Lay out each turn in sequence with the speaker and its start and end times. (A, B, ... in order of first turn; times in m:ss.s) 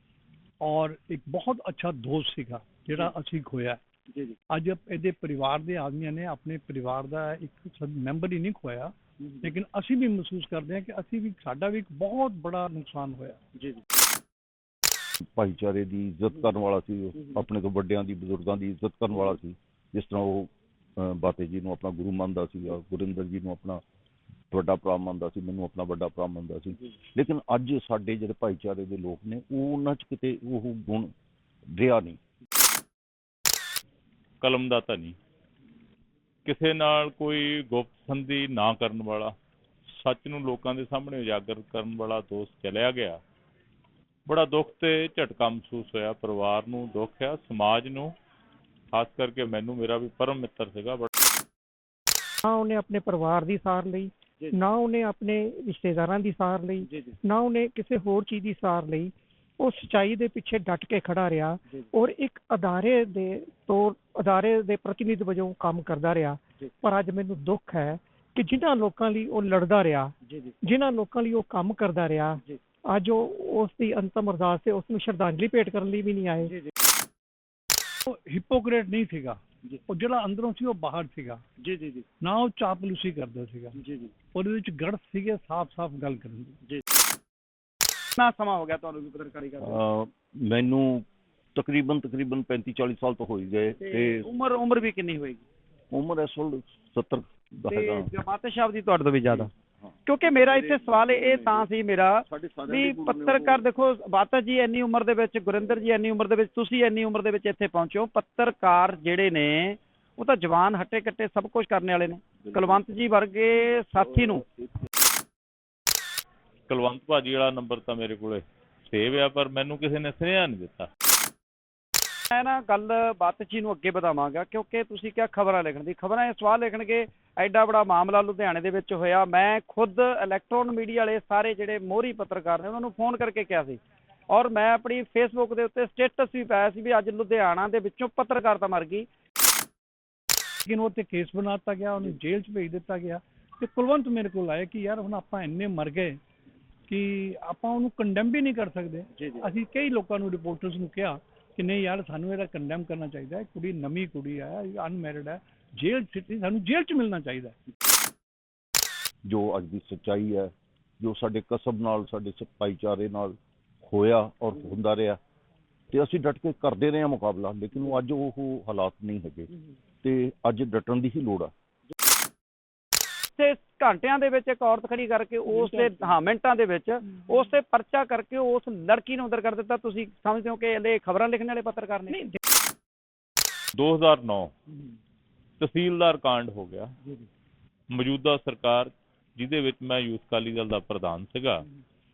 0:00.6-0:03.8 A
0:04.5-0:13.4 A
0:15.4-0:23.8 B
0:24.5-0:31.1 B
0:31.7-0:32.2 B
0:34.4-0:35.1 C
0:36.4-0:39.3 C
0:39.9-0:43.2 C
0:44.3-0:48.1 C
0:48.9-0:51.1 C
0:52.4-1:16.6 D
1:18.0-1:21.4 A
1:22.2-1:23.8 A
1:24.3-1:26.6 A
1:28.2-1:29.8 E
1:29.6-1:34.3 B
1:33.8-1:35.4 E
1:35.9-1:38.1 B
1:37.7-1:39.5 E
1:39.3-1:41.7 B
1:40.1-1:54.4 E
1:42.2-1:43.6 B
1:52.4-1:52.8 B
1:53.8-1:54.7 B
1:56.7-2:00.9 C
2:02.3-2:19.1 E
2:20.7-2:26.2 A
2:26.9-2:37.6 A
2:39.2-2:45.2 B
2:45.9-2:49.5 B
2:50.0-2:51.5 B
2:53.4-3:02.4 E
3:03.8-3:04.5 C
3:05.6-3:07.0 C
3:07.9-3:11.7 C